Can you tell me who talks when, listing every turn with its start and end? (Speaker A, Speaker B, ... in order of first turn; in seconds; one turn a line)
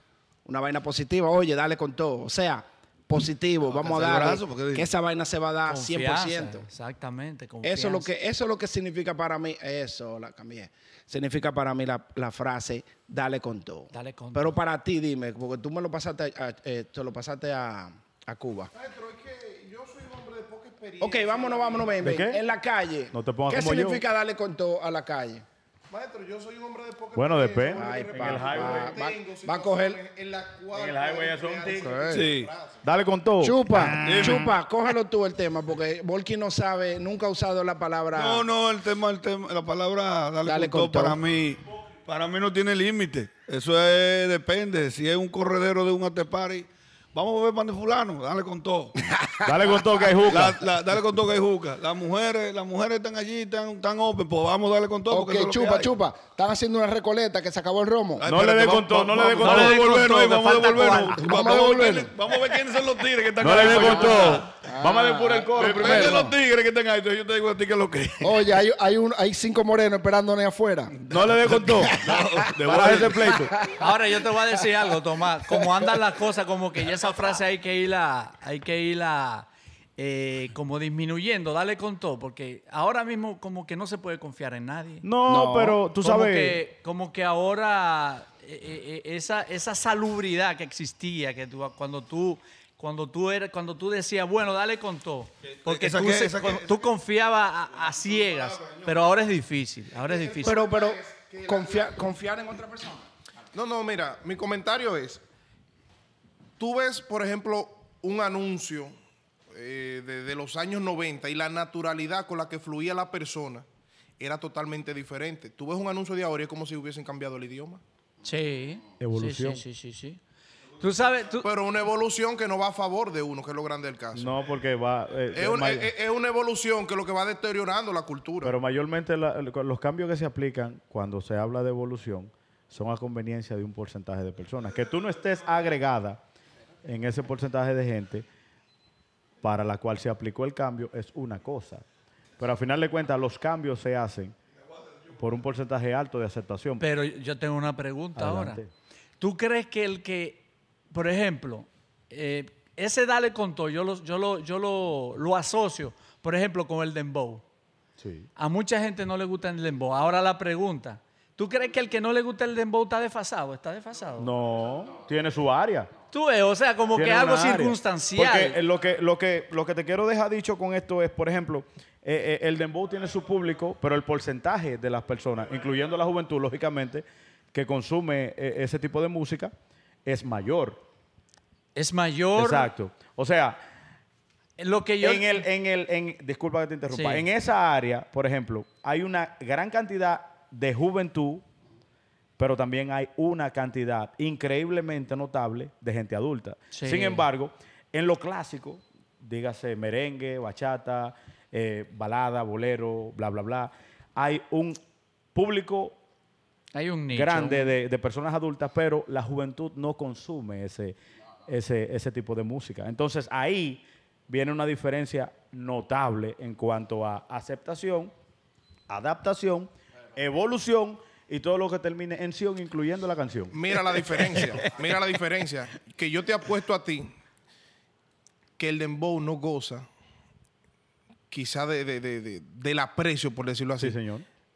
Speaker A: 0.5-6.6
Speaker B: 3.7-4.9
Speaker C: 5.7-8.1
Speaker A: 7.6-18.7
Speaker C: 13.9-14.6
Speaker D: 18.7-22.1
Speaker A: 21.0-25.4
Speaker E: 22.0-22.4
Speaker E: 23.1-24.0
Speaker D: 25.9-32.8
Speaker E: 27.1-28.9
Speaker A: 27.7-30.0
Speaker E: 30.7-32.1
Speaker A: 31.8-32.3
Speaker B: 32.1-32.5
Speaker E: 32.8-34.4
Speaker A: 33.4-38.5
Speaker B: 34.0-34.5
Speaker B: 38.1-48.9
Speaker A: 40.4-41.2
Speaker A: 49.0-50.2
Speaker E: 49.4-50.6
Speaker B: 50.3-55.9
Speaker A: 55.1-58.2
Speaker B: 58.2-64.5
Speaker E: 58.2-59.8
Speaker C: 59.4-61.2
Speaker A: 61.1-62.1
Speaker E: 63.4-66.3
Speaker A: 63.5-66.3
Speaker B: 65.5-68.4
Speaker A: 68.2-71.0
Speaker E: 71.1-73.5
Speaker B: 71.4-73.4
Speaker A: 71.6-73.9
Speaker C: 73.7-85.0
Speaker E: 85.0-86.6
Speaker A: 85.3-85.8
Speaker C: 86.0-100.6
Speaker B: 95.5-96.9
Speaker B: 97.8-98.9
Speaker D: 100.0-102.1
Speaker A: 100.4-103.1
Speaker D: 103.5-105.2
Speaker D: 106.6-109.0
Speaker D: 109.5-113.6
Speaker D: 114.2-117.8
Speaker C: 118.2-120.2
Speaker E: 119.0-119.6
Speaker C: 120.8-121.5
Speaker D: 121.4-124.3
Speaker E: 124.1-125.9
Speaker D: 125.3-128.5
Speaker E: 128.4-136.2
Speaker E: 136.8-138.2
Speaker E: 139.4-141.8
Speaker E: 142.4-144.3
Speaker E: 145.1-146.8
Speaker C: 146.8-148.6
Speaker E: 148.2-148.7
Speaker C: 149.2-157.4
Speaker E: 158.0-158.3
Speaker C: 158.4-164.3
Speaker E: 164.2-165.9
Speaker C: 166.1-168.6
Speaker E: 166.9-179.5
Speaker E: 180.1-180.8
Speaker C: 181.7-182.7
Speaker E: 182.3-183.6
Speaker C: 184.6-185.4
Speaker E: 185.0-191.4
Speaker C: 186.9-187.2
Speaker E: 192.4-204.8
Speaker C: 196.7-197.3
Speaker E: 205.3-206.0
Speaker C: 206.7-207.7
Speaker E: 207.1-218.1
Speaker E: 218.9-224.5
Speaker D: 223.5-227.1
Speaker D: 228.6-229.9
Speaker D: 231.3-234.0
Speaker E: 233.8-234.2